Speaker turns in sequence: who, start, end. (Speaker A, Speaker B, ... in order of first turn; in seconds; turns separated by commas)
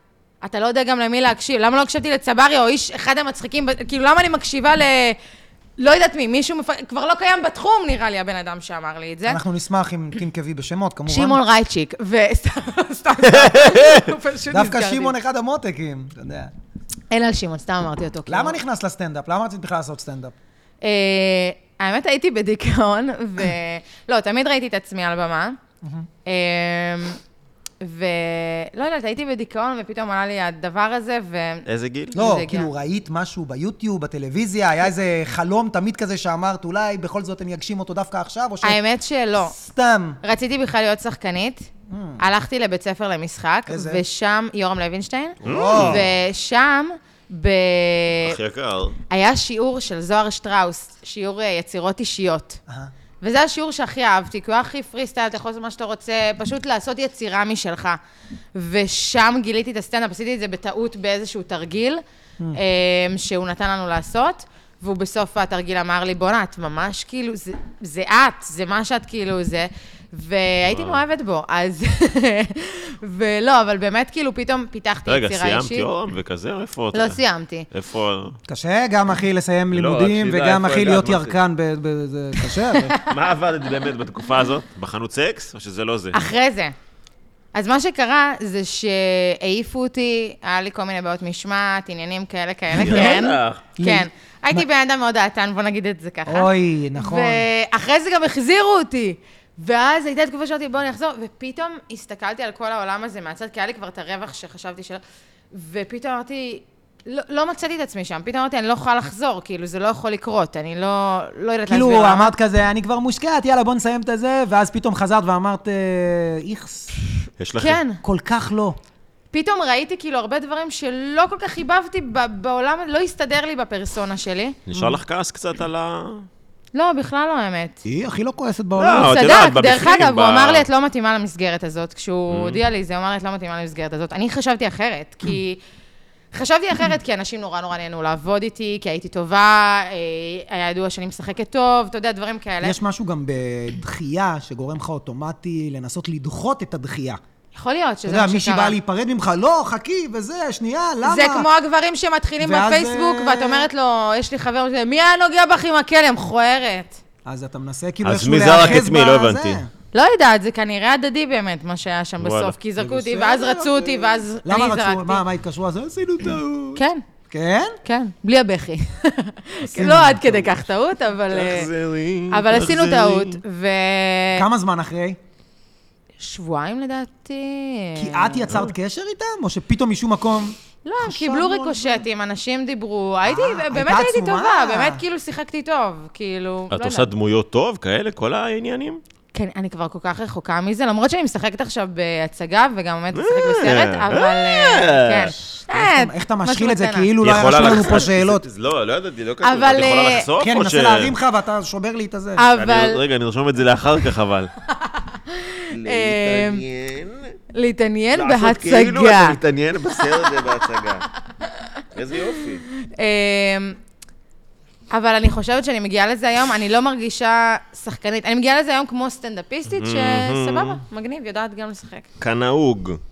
Speaker A: 0.4-5.2, Speaker A: 5.8-9.4, Speaker B: 9.3-11.4, Speaker A: 11.1-15.2, Speaker C: 13.3-14.1, Speaker B: 14.5-16.5, Speaker A: 17.1-18.6, Speaker B: 18.3-20.3, Speaker A: 20.8-25.6, Speaker B: 25.8-26.1, Speaker A: 26.3-27.2, Speaker A: 27.8-32.7, Speaker C: 31.7-32.1, Speaker B: 32.1-38.8, Speaker A: 38.6-39.5, Speaker B: 39.4-40.2, Speaker A: 40.2-41.7, Speaker B: 41.9-42.2, Speaker A: 42.2-48.4, Speaker B: 43.7-44.0, Speaker C: 45.4-46.0, Speaker B: 45.4-46.1, Speaker C: 48.2-49.0, Speaker A: 49.1-52.6, Speaker A: 53.2-58.0, Speaker A: 58.5-62.0, Speaker A: 62.5-75.9, Speaker C: 70.7-71.0, Speaker C: 75.1-77.2, Speaker A: 76.9-77.7, Speaker C: 77.7-78.4, Speaker B: 78.5-82.9, Speaker C: 79.7-81.4, Speaker A: 82.4-83.1, Speaker C: 83.1-86.3, Speaker A: 86.1-86.8, Speaker A: 87.5-105.0, Speaker C: 92.8-93.6, Speaker B: 92.8-93.2, Speaker B: 93.8-94.7, Speaker B: 96.3-97.5, Speaker A: 105.5-112.3, Speaker B: 111.7-116.9, Speaker C: 117.4-117.8, Speaker A: 117.6-118.0, Speaker B: 118.0-118.8, Speaker A: 119.3-124.6, Speaker C: 124.7-126.3, Speaker A: 126.7-127.8, Speaker B: 127.8-129.2, Speaker C: 128.8-130.7, Speaker A: 128.9-135.6, Speaker C: 132.3-132.6, Speaker A: 136.3-142.8, Speaker B: 142.6-147.2, Speaker A: 147.5-148.8, Speaker B: 148.1-151.5, Speaker A: 151.0-157.0, Speaker B: 152.4-153.7, Speaker B: 157.2-159.7, Speaker C: 158.0-159.6, Speaker A: 159.9-165.2, Speaker C: 162.2-162.6, Speaker B: 162.8-167.8, Speaker A: 166.8-167.0, Speaker A: 167.8-171.7, Speaker B: 169.6-170.5, Speaker C: 171.3-173.3, Speaker A: 172.3-174.4, Speaker B: 172.7-173.2, Speaker B: 174.3-175.2, Speaker A: 176.2-178.5, Speaker B: 178.0-182.0, Speaker A: 180.8-187.1, Speaker B: 183.2-185.0, Speaker C: 186.7-189.0, Speaker A: 189.3-198.0, Speaker C: 193.1-195.3, Speaker B: 195.7-198.4, Speaker C: 197.2-201.2, Speaker A: 199.4-200.3, Speaker B: 200.4-202.4, Speaker A: 202.4-203.0, Speaker C: 202.6-204.5, Speaker A: 204.8-206.6, Speaker C: 205.7-207.4, Speaker A: 207.5-209.4, Speaker C: 208.1-211.1, Speaker C: 211.9-212.7, Speaker A: 212.7-213.8, Speaker A: 214.9-222.1, Speaker C: 219.7-220.8, Speaker C: 222.2-223.0